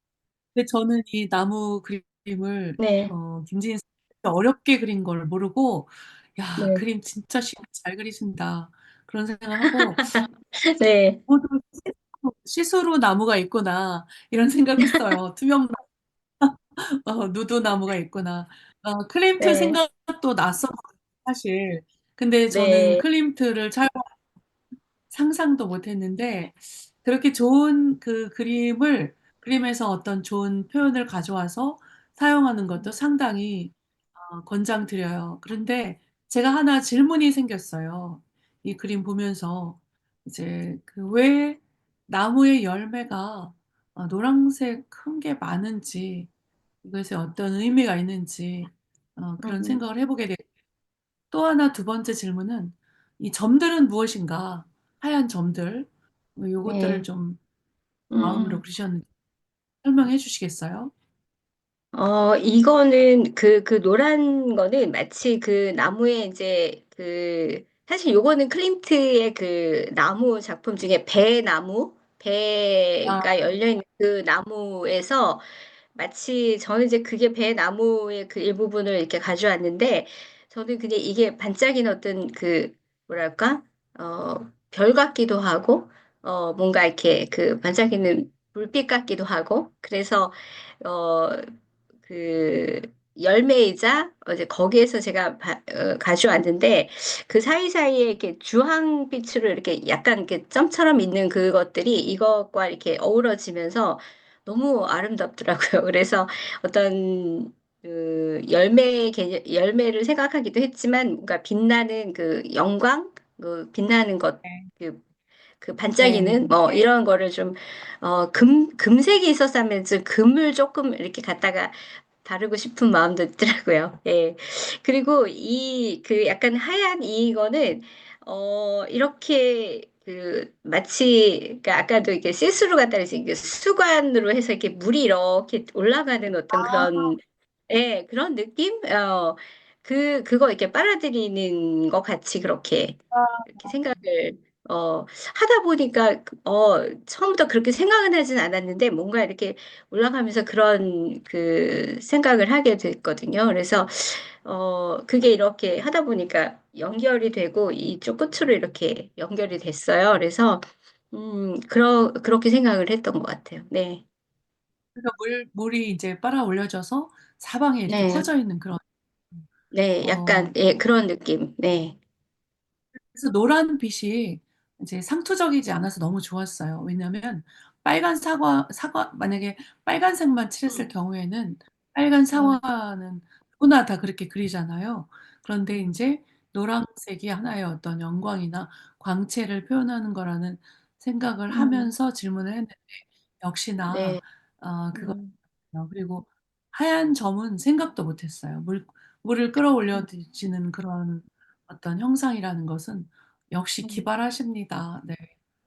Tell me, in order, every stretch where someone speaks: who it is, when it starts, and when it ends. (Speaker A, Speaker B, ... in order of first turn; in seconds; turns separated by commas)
Speaker A: 0.6-10.2, Speaker B: 2.8-3.1, Speaker B: 6.6-6.8, Speaker B: 9.6-11.2, Speaker A: 11.3-15.8, Speaker A: 16.4-24.2, Speaker B: 19.4-19.8, Speaker B: 22.5-23.1, Speaker A: 25.1-46.3, Speaker A: 46.8-50.4, Speaker B: 49.4-49.8, Speaker A: 51.3-57.4, Speaker B: 56.7-57.0, Speaker B: 58.1-58.6, Speaker A: 58.2-59.1, Speaker A: 59.8-60.9, Speaker B: 61.9-91.5, Speaker A: 73.0-73.4, Speaker B: 92.0-115.0, Speaker B: 115.6-164.1, Speaker A: 116.0-116.9, Speaker A: 136.5-137.2, Speaker A: 143.1-144.0, Speaker A: 164.9-169.5, Speaker B: 167.9-168.3, Speaker B: 169.7-172.0, Speaker A: 170.0-170.6, Speaker A: 173.1-205.3, Speaker B: 180.7-180.9, Speaker B: 182.3-182.6, Speaker B: 191.5-191.9, Speaker B: 193.9-194.2, Speaker B: 194.9-195.3